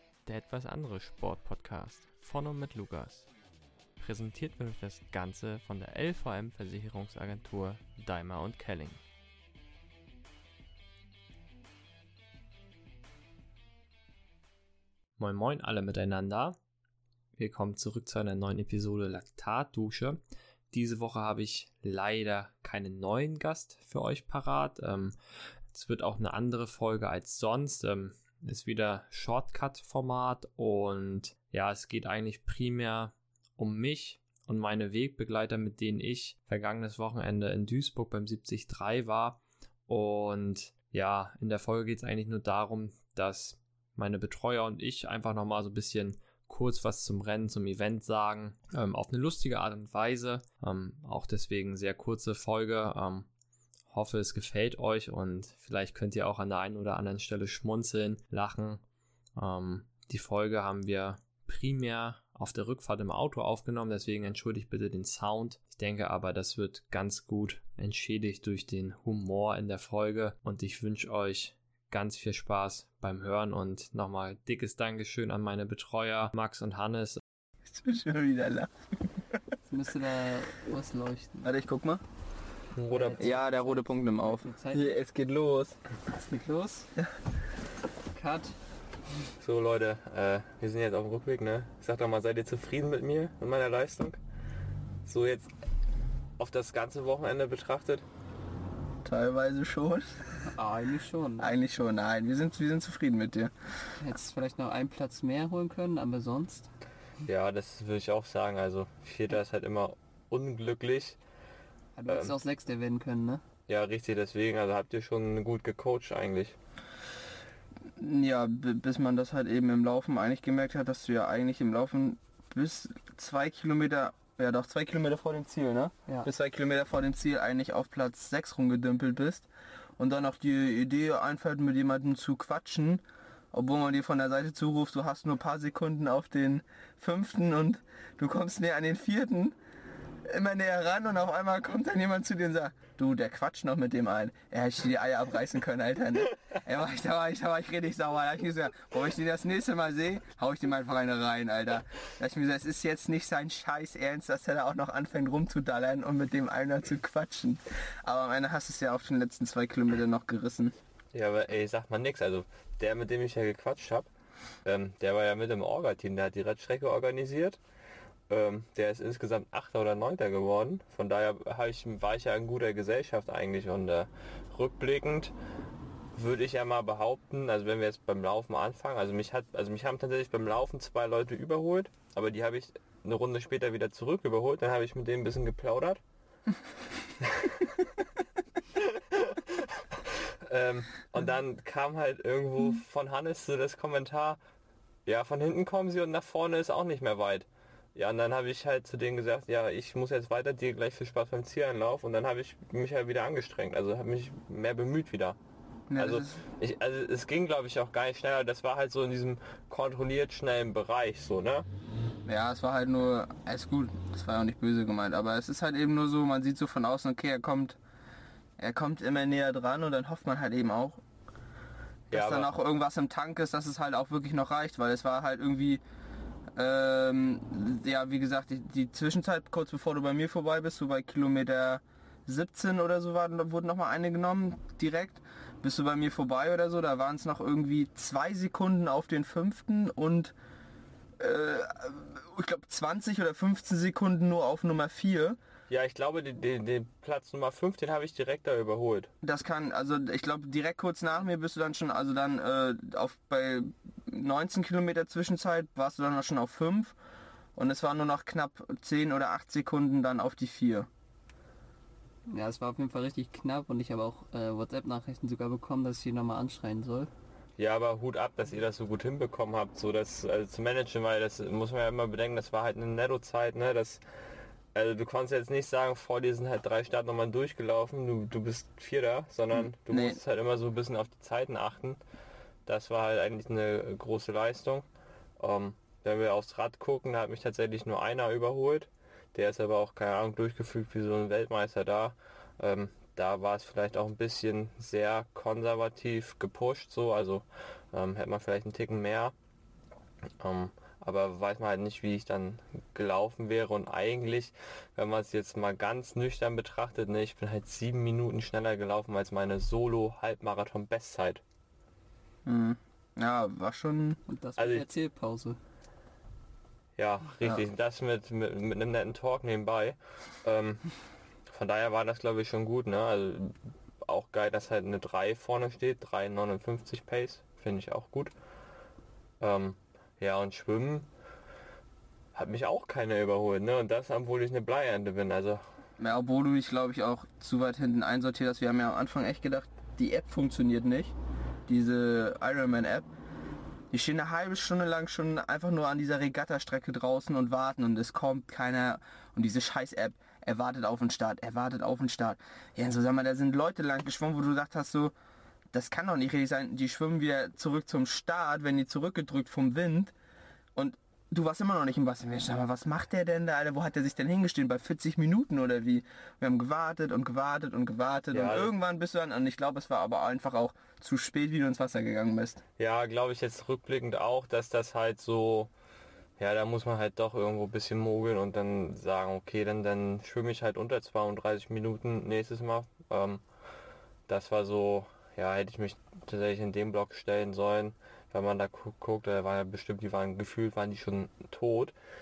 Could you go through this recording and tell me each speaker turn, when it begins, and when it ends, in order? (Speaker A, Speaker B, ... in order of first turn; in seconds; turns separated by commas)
Speaker A: 0.3-3.3, Speaker A: 4.0-9.0, Speaker B: 15.2-16.6, Speaker B: 17.4-20.2, Speaker A: 19.1-20.1, Speaker B: 20.7-25.1, Speaker A: 23.1-24.1, Speaker B: 25.7-39.4, Speaker A: 27.0-27.4, Speaker A: 28.9-30.5, Speaker A: 31.3-33.1, Speaker A: 33.9-39.3, Speaker B: 39.9-53.3, Speaker A: 40.7-41.2, Speaker A: 42.4-43.6, Speaker A: 44.9-45.4, Speaker A: 47.6-48.6, Speaker B: 53.9-58.8, Speaker A: 57.7-58.4, Speaker B: 59.4-77.2, Speaker A: 59.9-60.1, Speaker A: 65.4-65.8, Speaker A: 70.3-70.6, Speaker A: 75.6-76.6, Speaker C: 77.7-78.7, Speaker D: 79.7-81.5, Speaker C: 81.4-82.0, Speaker A: 82.8-83.3, Speaker D: 82.9-85.0, Speaker C: 83.2-85.8, Speaker D: 86.1-86.9, Speaker D: 88.1-88.5, Speaker A: 89.4-94.2, Speaker A: 95.1-95.5, Speaker A: 96.4-98.0, Speaker C: 99.0-100.1, Speaker D: 100.5-101.6, Speaker C: 101.4-103.5, Speaker D: 104.0-106.7, Speaker A: 107.2-111.2, Speaker D: 112.0-113.4, Speaker A: 112.1-112.3, Speaker A: 113.7-116.6, Speaker C: 118.0-129.5, Speaker C: 130.0-133.0, Speaker C: 133.5-139.6, Speaker C: 140.3-160.8, Speaker A: 161.1-164.1, Speaker A: 164.7-167.6, Speaker A: 168.3-175.3, Speaker A: 176.2-186.0, Speaker A: 187.2-187.9, Speaker A: 188.7-194.4, Speaker A: 195.1-205.4, Speaker C: 205.9-206.4, Speaker A: 206.0-211.7, Speaker C: 212.3-217.8, Speaker C: 218.6-221.0, Speaker C: 222.1-225.8, Speaker A: 222.1-222.5, Speaker C: 226.6-240.3, Speaker C: 241.2-245.4, Speaker A: 245.7-249.1, Speaker C: 249.2-257.0, Speaker C: 257.6-260.9, Speaker D: 262.3-267.1, Speaker A: 267.6-274.0, Speaker A: 274.8-282.0, Speaker C: 279.9-280.2, Speaker A: 282.7-284.9, Speaker A: 285.4-299.3, Speaker A: 300.4-311.4, Speaker C: 312.5-314.2, Speaker D: 314.3-315.6, Speaker A: 314.6-314.9, Speaker A: 317.0-320.9, Speaker A: 321.5-328.3, Speaker A: 329.4-331.1, Speaker A: 332.4-335.6, Speaker C: 336.0-341.1, Speaker C: 341.7-343.1, Speaker C: 343.9-355.1, Speaker C: 355.7-360.1, Speaker C: 360.8-372.6, Speaker A: 368.3-368.7, Speaker A: 372.8-375.7, Speaker A: 376.4-383.4, Speaker A: 384.3-391.9